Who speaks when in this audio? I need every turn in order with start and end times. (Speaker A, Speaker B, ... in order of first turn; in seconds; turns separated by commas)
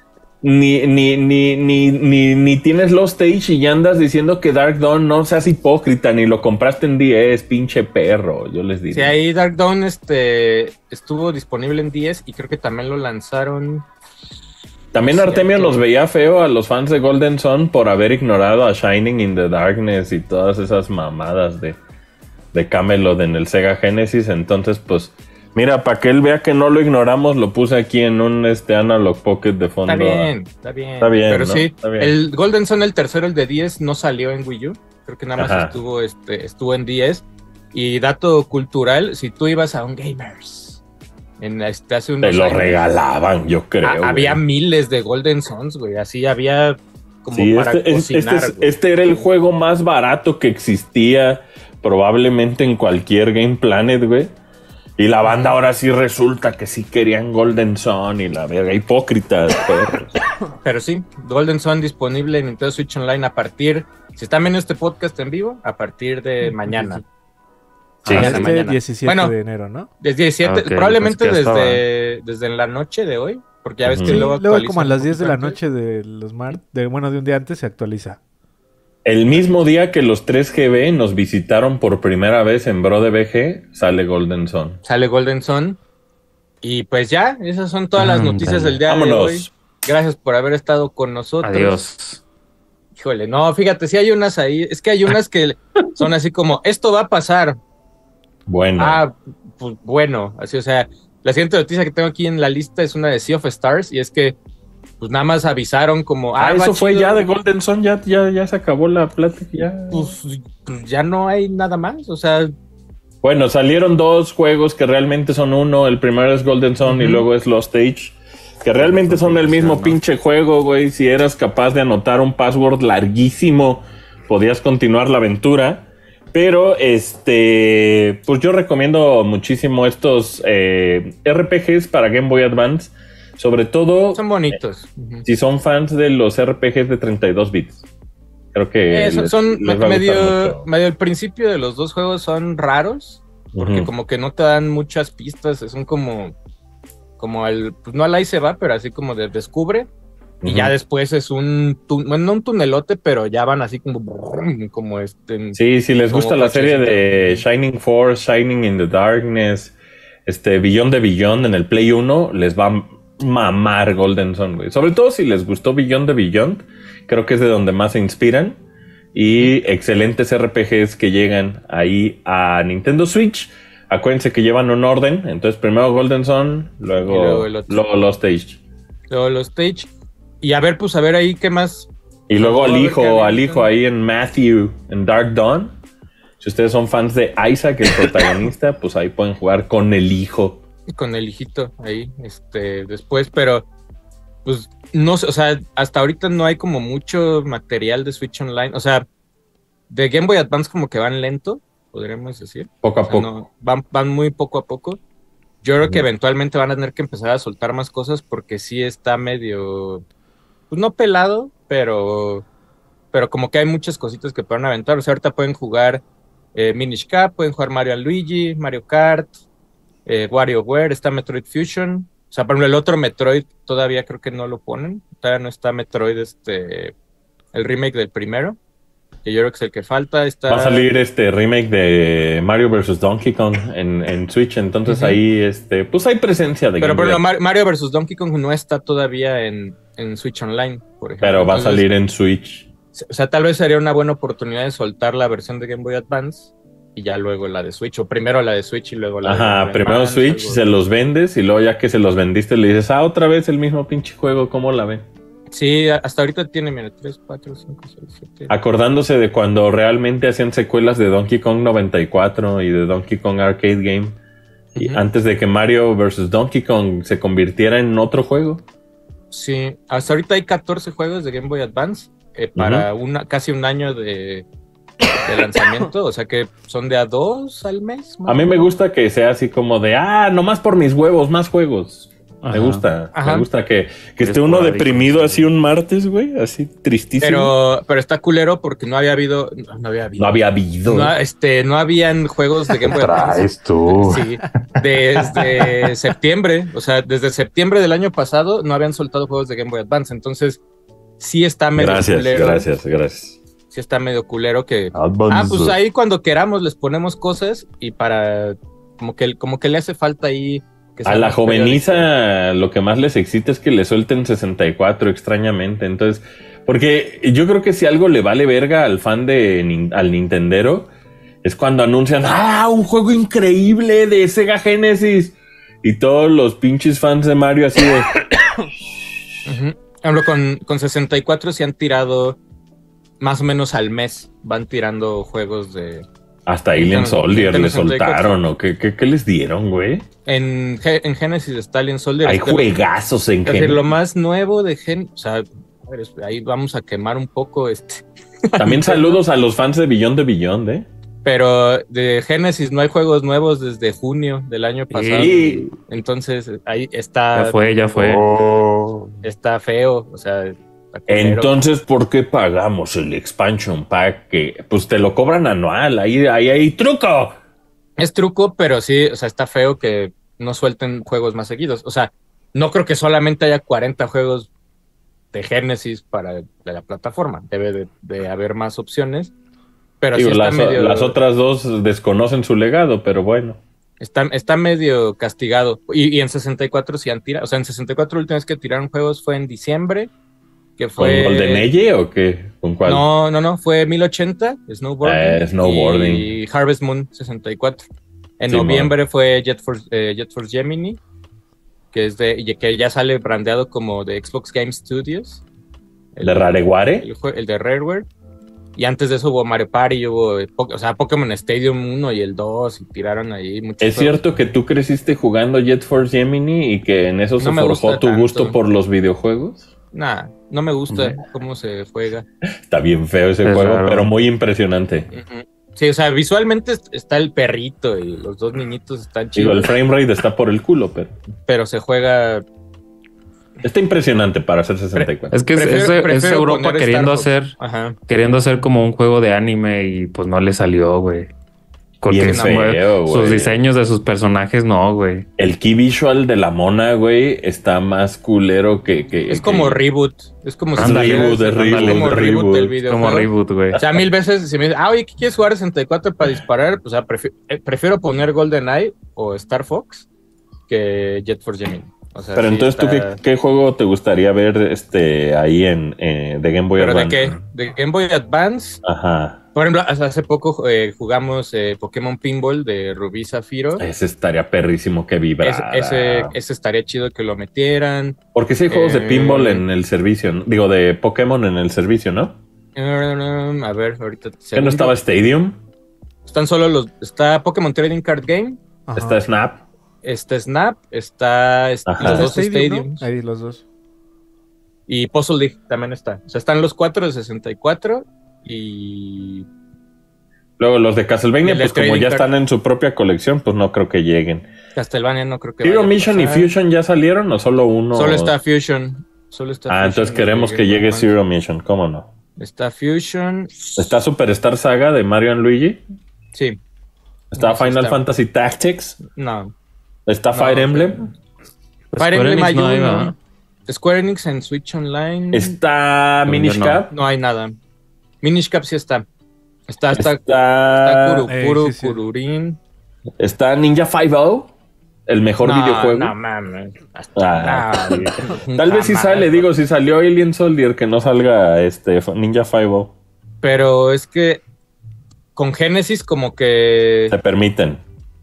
Speaker A: 0.4-9.1, Speaker B: 8.9-13.9, Speaker A: 14.9-21.8, Speaker B: 15.1-15.8, Speaker A: 22.5-30.3, Speaker B: 29.9-40.8, Speaker A: 31.0-32.1, Speaker A: 35.4-35.7, Speaker B: 41.4-42.8, Speaker A: 42.2-44.4, Speaker B: 43.8-49.2, Speaker A: 47.3-54.3, Speaker A: 55.0-60.1, Speaker B: 60.6-67.0, Speaker C: 66.7-67.0, Speaker D: 68.0-68.5, Speaker A: 68.0-68.4, Speaker C: 68.1-69.9, Speaker B: 68.1-69.3, Speaker B: 70.0-75.6, Speaker D: 70.4-71.8, Speaker A: 73.8-74.3, Speaker C: 74.0-78.2, Speaker A: 79.0-84.8, Speaker B: 84.8-85.8, Speaker B: 86.6-91.8, Speaker D: 88.0-88.8, Speaker A: 88.9-89.5, Speaker D: 91.4-92.2, Speaker B: 93.0-97.6, Speaker A: 98.5-99.0, Speaker B: 98.8-104.4, Speaker B: 105.0-107.2, Speaker A: 106.4-110.1, Speaker B: 109.9-112.5, Speaker A: 113.2-134.2, Speaker B: 116.8-117.2, Speaker D: 118.8-120.0, Speaker B: 134.1-135.2, Speaker A: 135.2-137.8, Speaker A: 138.5-140.7, Speaker B: 138.9-146.3, Speaker A: 143.5-143.9, Speaker B: 147.2-149.9, Speaker A: 150.4-150.7, Speaker B: 150.4-155.6, Speaker A: 155.5-159.7, Speaker B: 156.1-157.4, Speaker A: 160.2-168.6, Speaker A: 169.1-178.6, Speaker B: 177.0-177.8, Speaker B: 179.1-179.9, Speaker B: 180.4-183.7, Speaker A: 182.3-185.8, Speaker A: 186.4-190.6, Speaker B: 190.9-193.7, Speaker B: 194.4-199.1, Speaker B: 199.9-205.0, Speaker A: 202.8-203.3, Speaker B: 205.6-210.0, Speaker B: 210.7-212.4, Speaker B: 213.1-219.3, Speaker B: 220.1-226.9, Speaker B: 227.5-228.6, Speaker B: 229.2-230.9, Speaker A: 230.5-237.2, Speaker B: 234.9-235.2, Speaker B: 236.8-241.9, Speaker A: 241.2-242.7, Speaker B: 242.9-250.7, Speaker A: 249.2-255.0, Speaker B: 255.5-258.5, Speaker A: 258.5-264.2, Speaker B: 264.7-265.0, Speaker A: 264.8-268.6, Speaker B: 269.3-274.4, Speaker A: 272.6-272.9, Speaker B: 275.2-278.7, Speaker A: 278.3-287.5, Speaker D: 282.4-282.8, Speaker B: 283.1-283.5, Speaker D: 284.2-285.5, Speaker B: 287.2-300.6, Speaker A: 290.2-291.1, Speaker E: 292.7-294.3, Speaker E: 294.8-295.9, Speaker B: 301.2-302.7, Speaker A: 301.8-303.4, Speaker B: 303.7-312.1, Speaker E: 304.9-305.8, Speaker A: 311.0-320.9, Speaker A: 321.4-328.1, Speaker B: 329.4-332.4, Speaker B: 333.2-336.1, Speaker A: 336.4-340.1, Speaker B: 336.8-338.3, Speaker B: 340.2-342.7, Speaker A: 342.2-343.9, Speaker B: 343.4-349.2, Speaker A: 348.6-350.9, Speaker B: 351.2-357.5, Speaker D: 354.9-355.6, Speaker A: 355.2-355.7, Speaker D: 357.3-358.2, Speaker E: 357.9-359.1, Speaker B: 359.2-361.6, Speaker A: 361.1-367.4, Speaker B: 368.0-374.5, Speaker B: 375.3-379.3, Speaker B: 380.0-381.2, Speaker A: 380.1-383.6, Speaker B: 384.0-390.1, Speaker B: 390.8-391.7, Speaker A: 391.0-393.1, Speaker B: 392.8-397.9, Speaker A: 395.0-396.3, Speaker B: 398.4-401.0, Speaker A: 398.5-398.9, Speaker B: 401.9-405.4, Speaker B: 406.1-408.1, Speaker A: 406.2-407.1, Speaker B: 408.8-414.2, Speaker A: 413.8-419.7, Speaker B: 417.4-418.6, Speaker B: 419.9-422.3, Speaker A: 422.7-425.1, Speaker D: 423.4-424.1, Speaker B: 425.1-429.7, Speaker A: 429.3-431.1, Speaker B: 431.5-432.4, Speaker A: 433.6-435.4, Speaker B: 434.9-438.0, Speaker D: 435.3-437.6, Speaker D: 438.1-441.3, Speaker D: 442.0-445.3, Speaker A: 442.1-443.6, Speaker B: 442.2-442.6, Speaker A: 445.4-449.8, Speaker B: 449.3-460.1, Speaker A: 450.8-452.8, Speaker D: 450.8-452.2, Speaker D: 452.9-453.8, Speaker B: 460.7-463.2, Speaker A: 462.3-467.4, Speaker B: 466.8-468.8, Speaker A: 468.8-469.4, Speaker B: 469.5-473.9, Speaker A: 473.8-476.3, Speaker B: 475.4-478.2, Speaker A: 478.3-482.4, Speaker B: 478.7-479.6, Speaker B: 482.7-485.0, Speaker A: 484.5-485.6, Speaker B: 486.2-488.6, Speaker C: 488.9-489.2, Speaker A: 488.9-489.6, Speaker B: 490.0-493.1, Speaker A: 491.9-492.3, Speaker C: 492.0-493.6, Speaker B: 494.9-499.5, Speaker A: 500.6-504.5, Speaker B: 501.4-502.3, Speaker B: 504.7-506.5, Speaker A: 505.6-508.3, Speaker B: 507.9-511.1, Speaker A: 509.7-512.1, Speaker B: 512.4-513.8, Speaker A: 513.8-515.8, Speaker B: 516.3-516.6, Speaker A: 517.3-519.0, Speaker B: 517.4-518.0, Speaker B: 519.1-519.5, Speaker A: 520.0-521.1, Speaker B: 520.3-521.1, Speaker D: 521.9-523.1, Speaker B: 522.0-523.1, Speaker B: 523.7-525.5, Speaker A: 525.3-526.9, Speaker D: 526.3-526.8, Speaker B: 526.9-527.5, Speaker B: 528.2-529.0, Speaker B: 529.7-532.6, Speaker A: 529.9-531.3, Speaker C: 531.3-532.0, Speaker A: 533.2-534.5, Speaker A: 535.1-536.1, Speaker B: 535.4-539.5, Speaker A: 537.1-542.9, Speaker B: 543.4-544.4, Speaker B: 545.4-547.2, Speaker A: 547.1-547.8